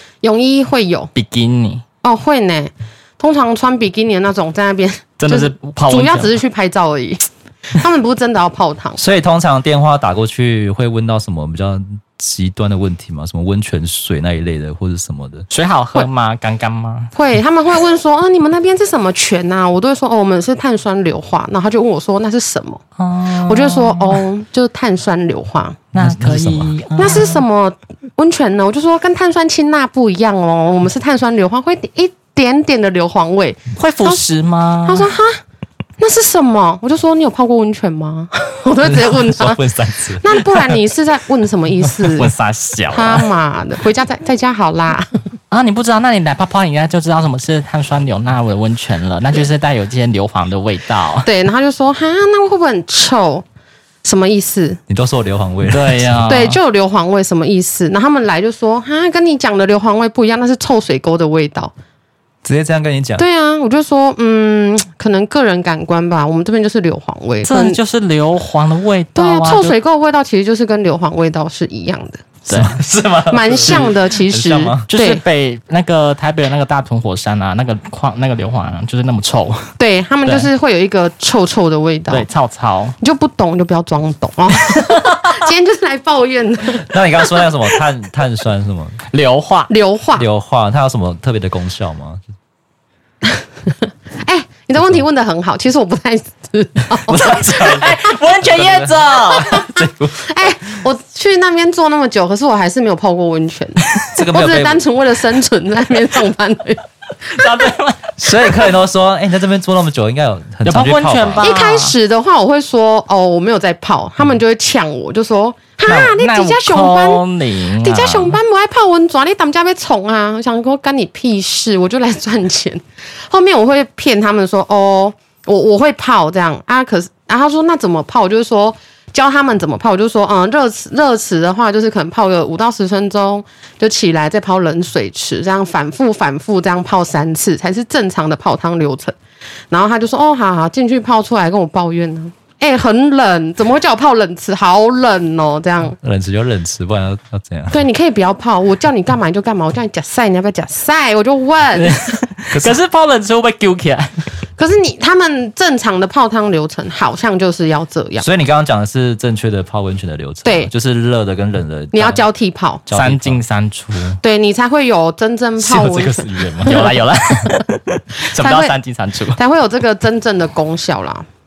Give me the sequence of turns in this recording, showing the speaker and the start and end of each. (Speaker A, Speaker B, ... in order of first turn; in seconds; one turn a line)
Speaker A: 0.2-1.1
Speaker B: 1.1-1.8
Speaker A: 2.0-9.0
Speaker B: 5.2-6.4
Speaker C: 9.0-15.5
Speaker B: 15.5-17.1
Speaker A: 17.1-22.8
Speaker B: 23.0-24.3
Speaker A: 23.4-25.8
Speaker B: 25.9-27.4
Speaker C: 26.0-26.8
Speaker A: 27.0-34.2
Speaker B: 33.8-35.2
Speaker A: 34.9-35.4
Speaker A: 36.0-39.6
Speaker C: 38.8-40.8
Speaker A: 40.2-42.3
Speaker B: 42.1-43.3
Speaker A: 42.9-45.2
Speaker B: 45.5-51.3
Speaker A: 51.2-53.4
Speaker A: 54.0-54.8
Speaker C: 54.9-56.3
Speaker B: 55.7-56.6
Speaker A: 56.3-61.7
Speaker C: 62.4-63.2
Speaker A: 63.2-67.8
Speaker B: 67.4-69.8
Speaker A: 69.2-72.3
Speaker B: 72.5-72.7
Speaker C: 72.5-74.9
Speaker A: 73.3-75.2
Speaker B: 74.9-80.5
Speaker A: 79.8-82.3
Speaker B: 82.1-83.0
Speaker A: 83.0-87.5
Speaker C: 86.7-89.0
Speaker B: 89.1-89.7
Speaker A: 89.7-90.2
Speaker C: 90.2-92.2
Speaker A: 94.2-97.9
Speaker C: 96.9-100.4
Speaker B: 97.5-99.7
Speaker A: 99.3-106.8
Speaker C: 104.1-104.8
Speaker B: 107.3-108.7
Speaker C: 108.2-111.5
Speaker B: 110.6-111.9
Speaker A: 111.4-117.2
Speaker B: 115.8-118.4
Speaker A: 117.8-139.1
Speaker A: 139.7-146.0
Speaker C: 146.0-147.8
Speaker A: 147.7-152.0
Speaker B: 151.7-154.3
Speaker C: 152.5-152.8
Speaker A: 154.6-158.2
Speaker C: 158.2-162.2
Speaker A: 160.4-160.7
Speaker A: 161.9-162.8
Speaker C: 162.9-163.4
Speaker B: 162.9-164.2
Speaker A: 164.2-166.9
Speaker C: 165.6-166.9
Speaker B: 166.6-169.4
Speaker A: 168.4-168.7
Speaker A: 169.3-171.2